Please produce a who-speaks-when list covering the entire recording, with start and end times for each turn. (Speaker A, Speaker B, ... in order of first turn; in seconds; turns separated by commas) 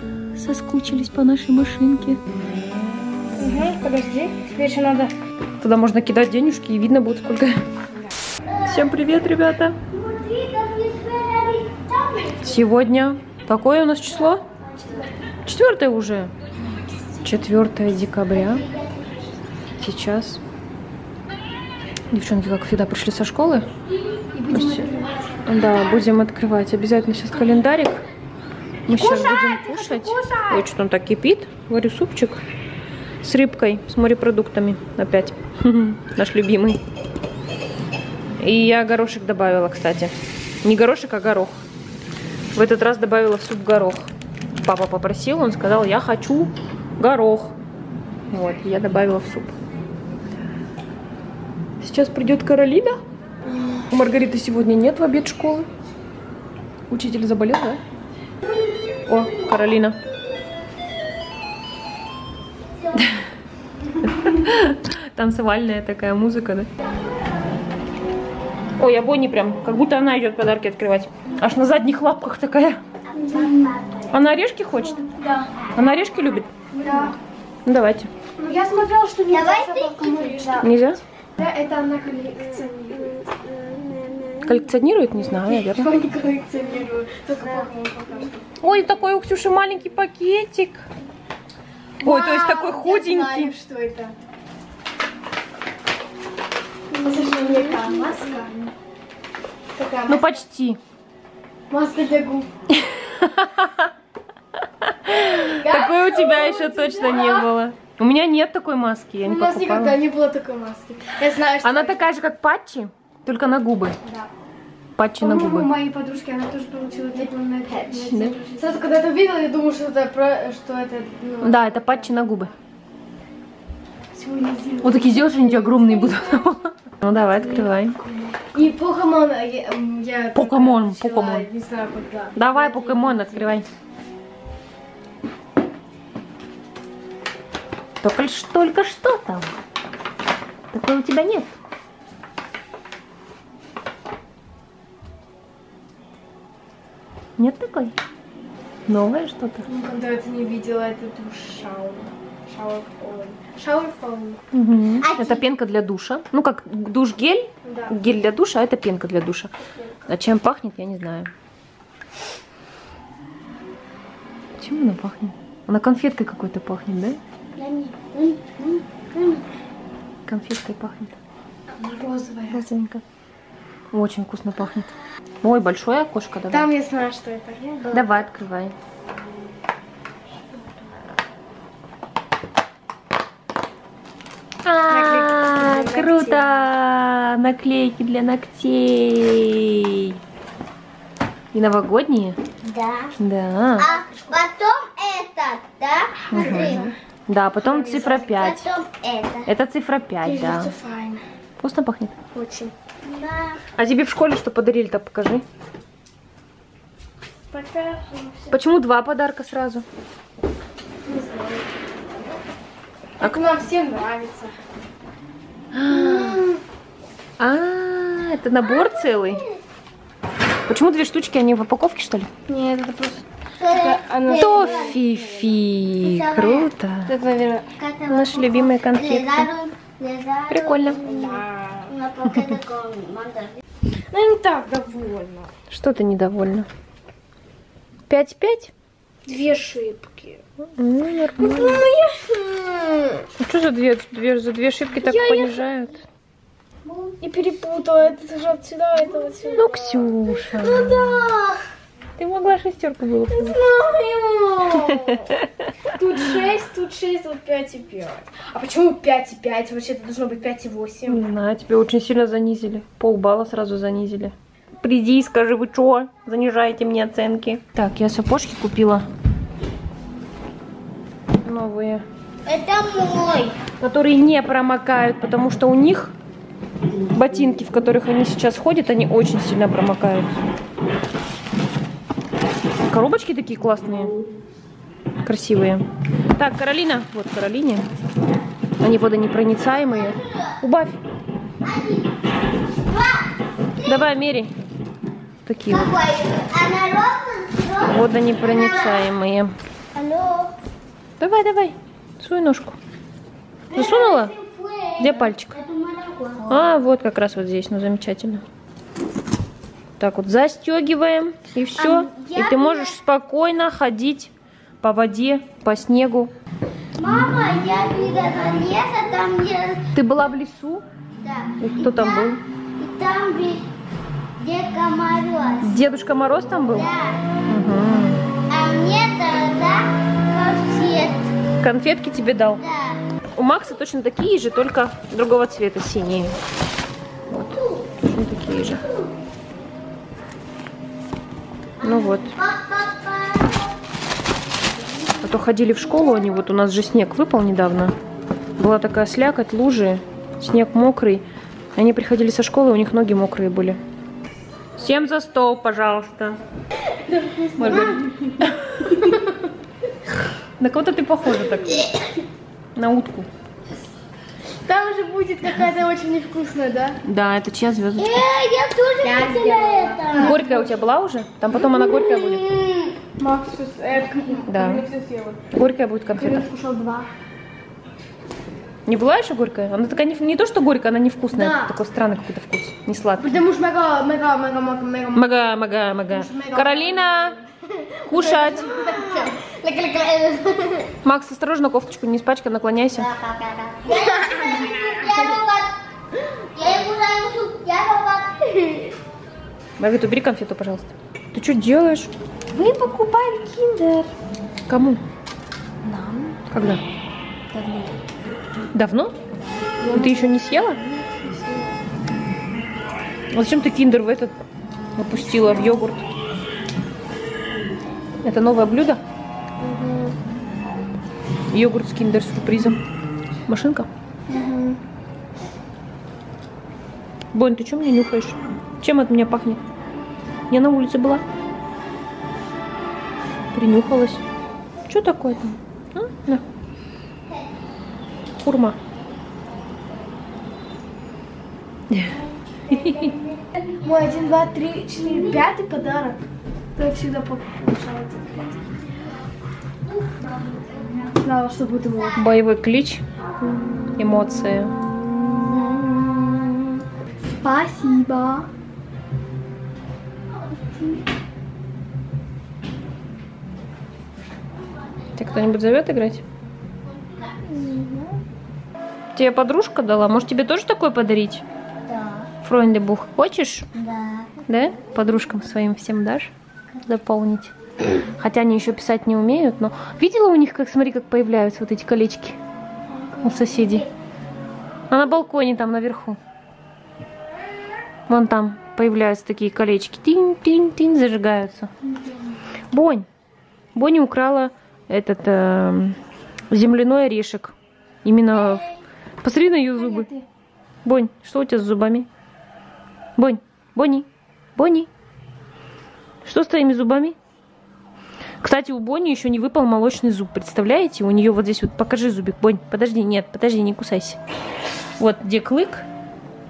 Speaker A: 0.3-2.2, Speaker B: 3.4-5.1, Speaker A: 5.6-7.5, Speaker C: 8.5-8.9, Speaker A: 8.6-9.8, Speaker C: 9.9-12.5, Speaker A: 12.4-14.4, Speaker A: 15.4-16.3, Speaker A: 17.2-18.7, Speaker C: 18.4-19.2, Speaker A: 19.8-20.4, Speaker A: 22.1-23.7, Speaker B: 24.3-25.5, Speaker A: 24.5-24.9, Speaker A: 25.4-28.0, Speaker A: 28.9-32.4, Speaker B: 28.9-30.6, Speaker A: 33.2-36.8, Speaker A: 38.4-41.6, Speaker A: 42.5-47.5, Speaker A: 48.3-49.5, Speaker A: 51.8-53.0, Speaker B: 53.5-53.8, Speaker A: 53.9-55.7, Speaker A: 56.9-57.8, Speaker A: 59.1-60.0, Speaker C: 59.1-59.5, Speaker A: 62.9-63.2, Speaker A: 64.0-66.7, Speaker A: 68.8-72.8, Speaker C: 73.1-74.2, Speaker B: 73.2-73.7, Speaker A: 74.1-75.1, Speaker B: 75.2-75.5, Speaker A: 75.7-76.5, Speaker B: 76.7-77.2, Speaker A: 77.7-78.1, Speaker B: 78.4-80.7, Speaker C: 79.3-80.6, Speaker A: 80.6-81.0, Speaker B: 81.3-83.3, Speaker C: 83.1-84.4, Speaker A: 84.4-85.9, Speaker B: 85.3-88.5, Speaker A: 88.6-90.8, Speaker B: 92.0-94.1, Speaker A: 92.0-93.5, Speaker B: 96.9-98.7, Speaker B: 99.7-100.4, Speaker A: 100.1-100.8, Speaker B: 101.7-102.5, Speaker A: 102.7-103.9, Speaker A: 104.8-110.0, Speaker B: 105.6-107.5, Speaker B: 109.2-112.0, Speaker A: 111.6-114.0, Speaker A: 114.9-115.7, Speaker B: 115.2-122.1, Speaker A: 118.1-118.4, Speaker A: 121.4-122.5, Speaker B: 124.1-126.1, Speaker A: 124.8-128.0, Speaker B: 127.1-133.6, Speaker A: 130.3-131.5, Speaker A: 132.3-133.7, Speaker A: 138.0-139.5, Speaker A: 140.7-141.5, Speaker A: 147.4-147.9, Speaker A: 148.9-149.7, Speaker B: 149.7-154.4, Speaker A: 154.5-159.5, Speaker C: 155.0-155.4, Speaker B: 157.6-157.9, Speaker A: 160.1-161.3, Speaker A: 164.6-167.2, Speaker C: 167.6-169.4, Speaker A: 170.2-171.2, Speaker B: 171.7-172.6, Speaker A: 172.5-173.0, Speaker A: 173.9-174.9, Speaker A: 175.4-176.7, Speaker B: 176.5-178.2, Speaker A: 177.9-178.7, Speaker A: 184.6-190.2, Speaker B: 184.9-186.5, Speaker A: 191.5-192.4, Speaker C: 192.6-193.1, Speaker A: 193.2-193.9, Speaker C: 193.8-196.9, Speaker B: 193.9-194.4, Speaker A: 196.3-198.7, Speaker B: 196.3-196.9, Speaker B: 197.6-198.2, Speaker C: 198.2-199.5, Speaker A: 199.5-200.7, Speaker B: 200.2-201.2, Speaker A: 201.6-202.2, Speaker B: 202.3-202.7, Speaker C: 203.0-203.6, Speaker A: 203.7-205.4, Speaker B: 207.5-208.5, Speaker A: 208.5-209.8, Speaker B: 211.0-211.7, Speaker B: 213.2-214.5, Speaker A: 215.7-216.4, Speaker B: 215.9-216.4, Speaker A: 217.4-219.4, Speaker C: 218.6-219.6, Speaker A: 220.7-222.3, Speaker B: 222.5-225.5, Speaker C: 223.6-225.0, Speaker A: 224.3-227.1, Speaker C: 226.0-226.7, Speaker B: 227.1-227.7, Speaker C: 227.8-233.6, Speaker A: 228.1-229.5, Speaker A: 230.5-231.0, Speaker B: 231.0-231.9, Speaker B: 234.1-235.5, Speaker A: 235.7-236.7, Speaker A: 238.1-238.7, Speaker B: 239.2-240.4, Speaker A: 240.8-241.8, Speaker B: 241.4-243.2, Speaker A: 243.4-246.1, Speaker B: 244.9-245.6, Speaker B: 247.2-251.2, Speaker A: 249.5-251.3, Speaker C: 250.6-251.5, Speaker A: 252.2-253.6, Speaker B: 253.3-255.3, Speaker A: 254.9-255.2, Speaker B: 255.9-261.2, Speaker A: 261.1-269.1, Speaker A: 271.4-272.0, Speaker C: 272.4-273.6, Speaker A: 273.8-276.1, Speaker A: 277.1-280.3, Speaker A: 282.8-284.1, Speaker A: 285.2-285.8, Speaker A: 286.3-287.9, Speaker A: 288.8-291.0, Speaker C: 289.7-290.6, Speaker C: 291.6-294.0, Speaker A: 293.8-294.5, Speaker A: 295.4-295.9, Speaker C: 295.7-299.1, Speaker A: 297.8-299.5, Speaker C: 299.9-300.6, Speaker A: 301.2-302.8, Speaker C: 303.7-306.6, Speaker A: 303.7-304.3, Speaker A: 305.0-305.6, Speaker A: 306.4-308.4, Speaker A: 310.0-316.3, Speaker C: 311.8-312.9, Speaker C: 317.0-319.9, Speaker A: 319.9-320.8, Speaker C: 321.2-323.7, Speaker A: 321.6-322.4, Speaker C: 324.4-325.9, Speaker A: 325.6-326.9, Speaker C: 326.5-327.2, Speaker A: 327.5-328.2, Speaker C: 328.5-331.3, Speaker A: 331.6-332.6, Speaker C: 332.6-333.0, Speaker A: 333.4-336.4, Speaker A: 337.3-338.9, Speaker C: 337.5-337.8, Speaker C: 338.6-338.9, Speaker C: 341.8-343.7, Speaker A: 341.8-342.4, Speaker A: 345.2-347.9, Speaker C: 345.8-346.4, Speaker A: 348.6-353.8, Speaker A: 354.8-356.4, Speaker B: 356.9-359.2, Speaker A: 357.6-358.6, Speaker A: 360.6-361.9, Speaker A: 362.7-363.3, Speaker B: 364.6-367.0, Speaker A: 367.0-368.2, Speaker C: 368.0-370.4, Speaker B: 369.0-370.8, Speaker A: 370.1-372.4, Speaker C: 371.5-373.0, Speaker B: 373.2-375.5, Speaker A: 374.4-374.8, Speaker A: 375.5-376.5, Speaker B: 376.1-377.1, Speaker A: 378.9-383.4, Speaker B: 381.3-381.7, Speaker B: 383.2-387.4, Speaker A: 385.1-387.4, Speaker A: 388.0-388.7, Speaker B: 388.1-389.4, Speaker C: 388.2-390.9, Speaker A: 391.0-393.1, Speaker C: 392.9-395.7, Speaker B: 394.4-394.9, Speaker C: 396.5-399.0, Speaker A: 399.8-402.1, Speaker B: 402.5-404.1, Speaker A: 404.7-405.0, Speaker A: 406.5-406.8, Speaker C: 407.5-407.9, Speaker A: 408.7-409.1, Speaker B: 409.8-411.7, Speaker A: 409.9-410.8, Speaker A: 413.3-414.3, Speaker A: 415.0-416.1, Speaker A: 418.2-419.0, Speaker B: 419.6-420.1, Speaker A: 421.5-422.8, Speaker A: 423.5-423.9, Speaker B: 424.3-424.8, Speaker A: 427.3-429.6, Speaker A: 430.5-431.2, Speaker A: 433.5-434.2, Speaker A: 434.9-436.4, Speaker A: 438.4-438.8, Speaker C: 442.6-444.3, Speaker A: 442.7-443.1, Speaker B: 443.8-446.2, Speaker C: 445.0-445.4, Speaker B: 446.7-448.7, Speaker C: 449.9-451.1, Speaker B: 451.2-452.2, Speaker C: 452.0-452.3, Speaker A: 452.1-453.0, Speaker A: 453.9-454.7, Speaker B: 455.5-456.6, Speaker B: 457.4-458.5, Speaker C: 460.3-461.0, Speaker C: 465.0-465.6, Speaker A: 465.1-466.2, Speaker C: 466.8-468.2, Speaker A: 469.1-471.4, Speaker C: 471.9-472.3, Speaker A: 472.4-473.7, Speaker C: 473.7-474.4, Speaker A: 474.5-476.3, Speaker A: 476.8-482.4, Speaker B: 482.9-483.6, Speaker A: 483.2-483.9, Speaker A: 484.9-486.2, Speaker A: 488.1-491.7, Speaker A: 492.7-493.1, Speaker A: 493.7-496.0, Speaker A: 496.5-498.7, Speaker A: 499.2-500.1, Speaker B: 499.8-500.2, Speaker A: 500.8-502.1, Speaker A: 503.2-504.9, Speaker A: 506.2-507.1, Speaker A: 508.4-514.2, Speaker A: 515.0-515.9